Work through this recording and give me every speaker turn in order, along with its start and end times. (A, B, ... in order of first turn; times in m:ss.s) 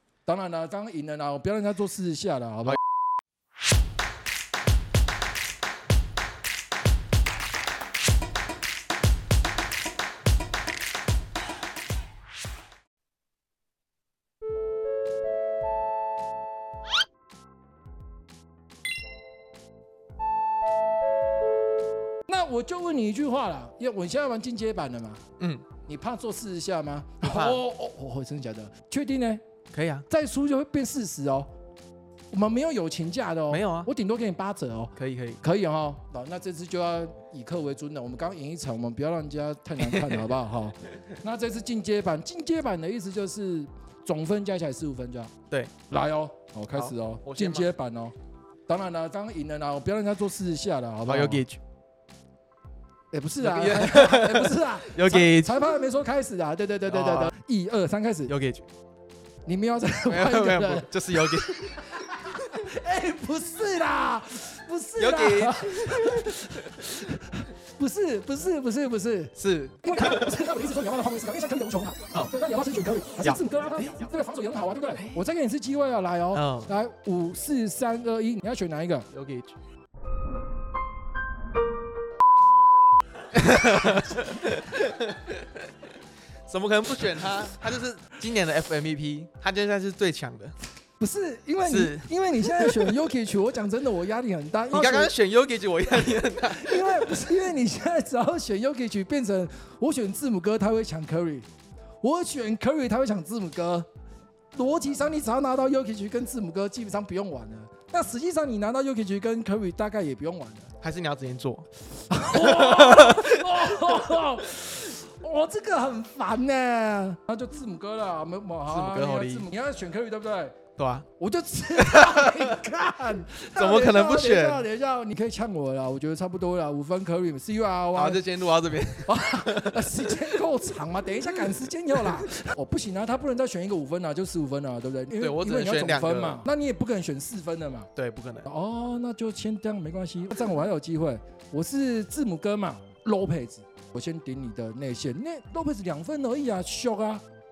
0:00.2-0:02.8 A
0:22.3-0:25.2 A
0:25.4-0:25.6 B
0:25.8-0:29.4 A
0:27.2-0:27.6 B
0:29.7-0:30.0 B
0:30.1-0:31.5 A
0:32.3-0:45.3 A
0:33.5-0:33.9 B
0:35.0-0:35.4 B
0:39.9-0:40.2 B
0:45.9-0:48.1 A
0:46.7-0:47.7 B
0:48.7-0:51.4 A
0:51.0-0:51.6 B
0:53.1-0:58.3 A
0:53.4-0:55.8 B
0:56.9-0:57.3 B
0:58.3-0:58.7 B
0:59.4-1:19.1 A
1:00.0-1:01.8 B
1:05.0-1:06.9 B
1:09.4-1:10.4 B
1:15.0-1:15.2 B
1:16.3-1:16.7 B
1:19.1-1:19.6 B
1:23.3-1:25.9 B
1:26.5-1:30.5 B
1:31.0-1:35.1 A
1:31.6-1:33.0 B
1:34.7-1:37.4 B
1:36.2-1:41.5 A
1:42.0-1:43.9 A
1:44.5-1:50.7 A
1:50.8-1:53.9 B
1:52.1-2:00.6 A
1:58.6-1:59.5 B
2:00.8-2:01.1 B
2:01.2-2:08.2 A
2:01.9-2:02.4 B
2:03.5-2:04.7 B
2:07.9-2:10.3 B
2:09.0-2:17.9 A
2:15.2-2:16.4 B
2:18.0-2:18.5 B
2:18.4-2:27.2 A